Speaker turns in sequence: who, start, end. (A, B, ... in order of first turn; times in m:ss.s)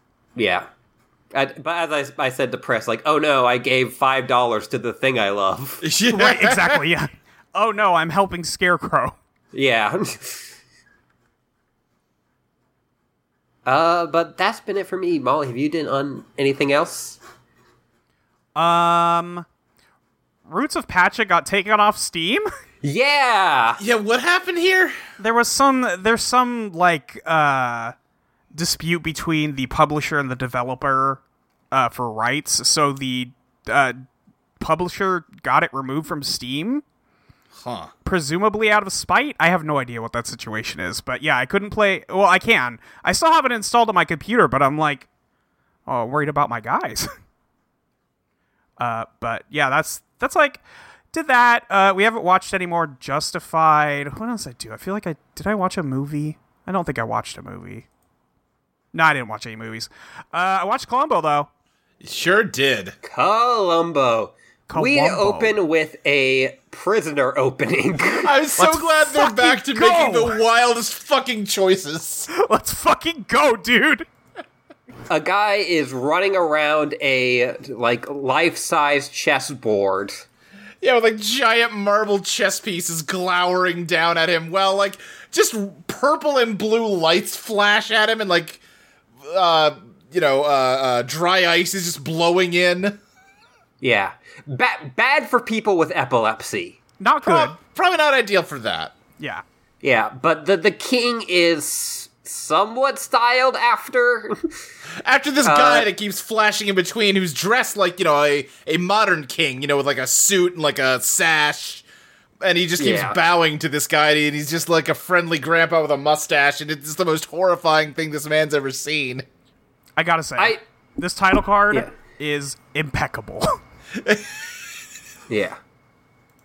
0:00.4-0:00.7 A
0:01.3-0:05.9 A
0:05.8-0:06.8 B
0:06.1-0:09.2 C
0:09.5-0:10.5 A
0:13.6-0:17.2 A
0:18.6-0:19.4 C
0:20.5-0:22.5 C
0:22.8-0:23.8 A
0:23.8-0:25.0 B
0:25.2-0:27.9 C
0:28.5-0:31.2 C
0:31.7-0:34.0 C
0:34.6-0:36.8 C
0:37.5-0:37.9 B
0:38.0-0:45.1 C
0:45.8-0:47.1 C
0:48.8-0:50.6 C
0:51.1-0:57.8 C
0:58.9-1:01.5 C
1:02.0-1:03.0 B
1:03.0-1:08.3 A
1:04.7-1:05.5 C
1:08.2-1:12.3 B
1:08.6-1:10.4 C
1:12.3-1:14.1 C
1:15.1-1:20.2 A
1:20.8-1:28.6 B
1:29.2-1:33.0 B
1:33.8-1:36.8 A
1:37.0-1:37.6 C
1:37.2-1:39.0 B
1:39.8-1:44.5 A
1:45.0-1:51.8 B
1:45.4-1:45.9 A
1:52.4-1:59.2 B
1:52.8-1:53.2 A
2:00.0-2:03.6 C
2:04.0-2:04.4 B
2:05.3-2:05.6 A